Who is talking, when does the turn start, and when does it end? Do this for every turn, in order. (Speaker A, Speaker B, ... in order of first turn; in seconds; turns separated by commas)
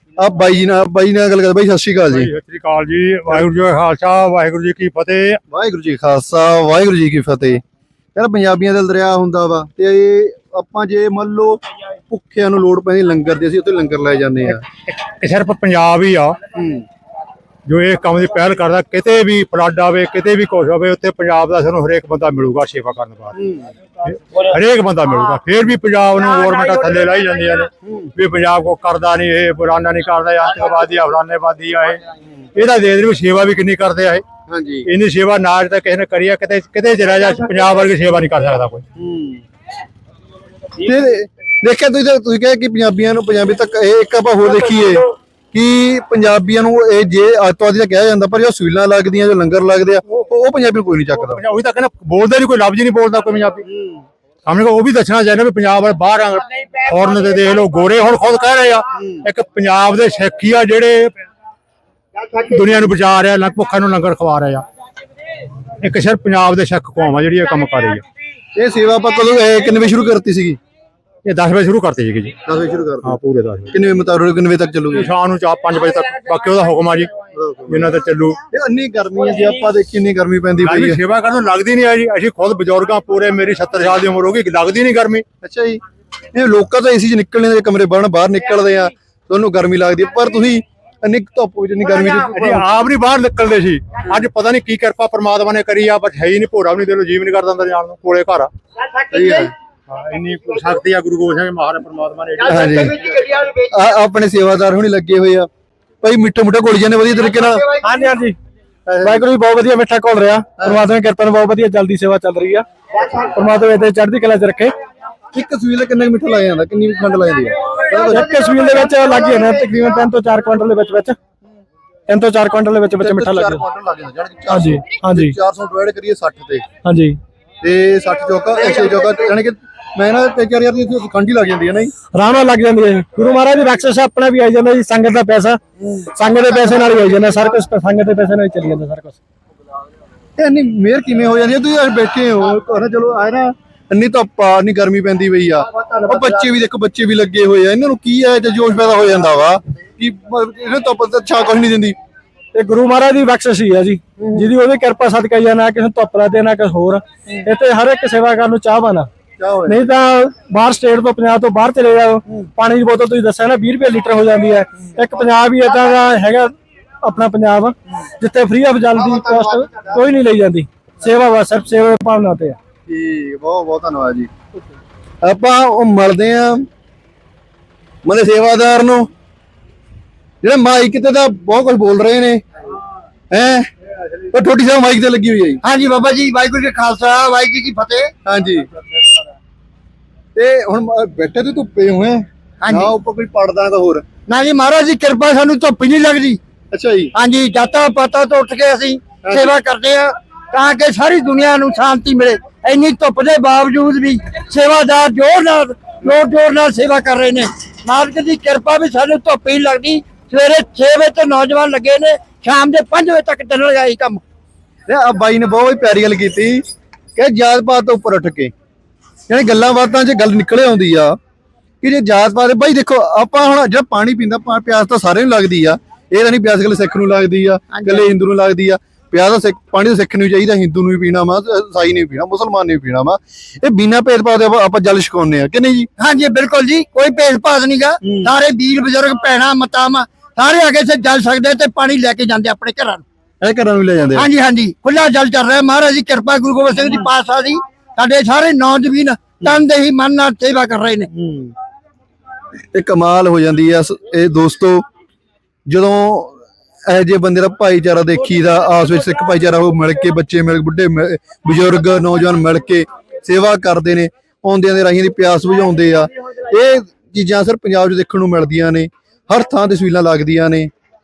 Speaker A: 0.2-2.3, Speaker B: 2.1-5.4, Speaker A: 5.5-7.6, Speaker A: 8.2-14.7, Speaker B: 14.9-16.4, Speaker A: 16.6-16.9, Speaker B: 17.7-23.3, Speaker A: 23.4-23.7, Speaker B: 24.1-32.0, Speaker A: 27.8-28.1, Speaker B: 32.6-34.2, Speaker A: 34.5-34.9, Speaker B: 34.9-38.8, Speaker A: 39.0-39.4, Speaker A: 40.8-51.4, Speaker B: 51.1-53.6, Speaker A: 53.7-54.0, Speaker B: 54.5-61.1, Speaker A: 59.0-59.3, Speaker B: 62.4-64.7, Speaker B: 65.8-68.0, Speaker A: 68.5-70.6, Speaker B: 71.2-72.4, Speaker A: 72.5-73.2, Speaker B: 73.0-73.7, Speaker A: 73.7-75.1, Speaker B: 74.9-77.2, Speaker A: 77.3-77.9, Speaker B: 77.7-78.4, Speaker A: 78.5-81.0, Speaker B: 80.6-85.2, Speaker A: 85.4-85.8, Speaker A: 86.3-92.7, Speaker B: 92.0-98.5, Speaker A: 99.1-99.5, Speaker B: 99.9-102.9, Speaker A: 102.4-105.5, Speaker C: 102.6-103.6, Speaker A: 106.0-107.7, Speaker D: 107.8-108.4, Speaker A: 108.9-109.2, Speaker D: 109.0-112.7, Speaker C: 113.0-113.3, Speaker D: 113.3-114.7, Speaker A: 115.3-118.3, Speaker D: 117.9-121.2, Speaker D: 122.1-123.6, Speaker A: 123.0-126.7, Speaker D: 124.5-125.3, Speaker D: 126.8-127.2, Speaker A: 127.6-131.9, Speaker D: 132.1-135.6, Speaker A: 135.8-137.0, Speaker D: 136.1-139.2, Speaker A: 140.4-152.0, Speaker D: 152.5-159.1, Speaker A: 154.2-154.5, Speaker A: 159.4-159.9, Speaker D: 159.7-166.5, Speaker D: 167.0-172.6, Speaker A: 172.9-174.3, Speaker A: 175.2-176.7, Speaker A: 178.1-179.1, Speaker A: 180.4-182.4, Speaker A: 183.3-185.6, Speaker C: 185.6-188.1, Speaker A: 188.2-188.7, Speaker A: 190.3-194.1, Speaker C: 192.6-192.9, Speaker C: 194.3-196.4, Speaker A: 196.7-197.2, Speaker C: 197.1-214.2, Speaker A: 199.2-199.5, Speaker A: 214.9-216.6, Speaker A: 217.2-218.5, Speaker A: 219.3-221.2, Speaker A: 221.8-235.9, Speaker C: 227.7-228.1, Speaker C: 236.0-243.0, Speaker A: 238.0-238.3, Speaker A: 243.4-244.3, Speaker C: 244.1-251.1, Speaker A: 246.8-247.1, Speaker A: 251.1-251.5, Speaker A: 252.7-254.8, Speaker A: 255.7-270.7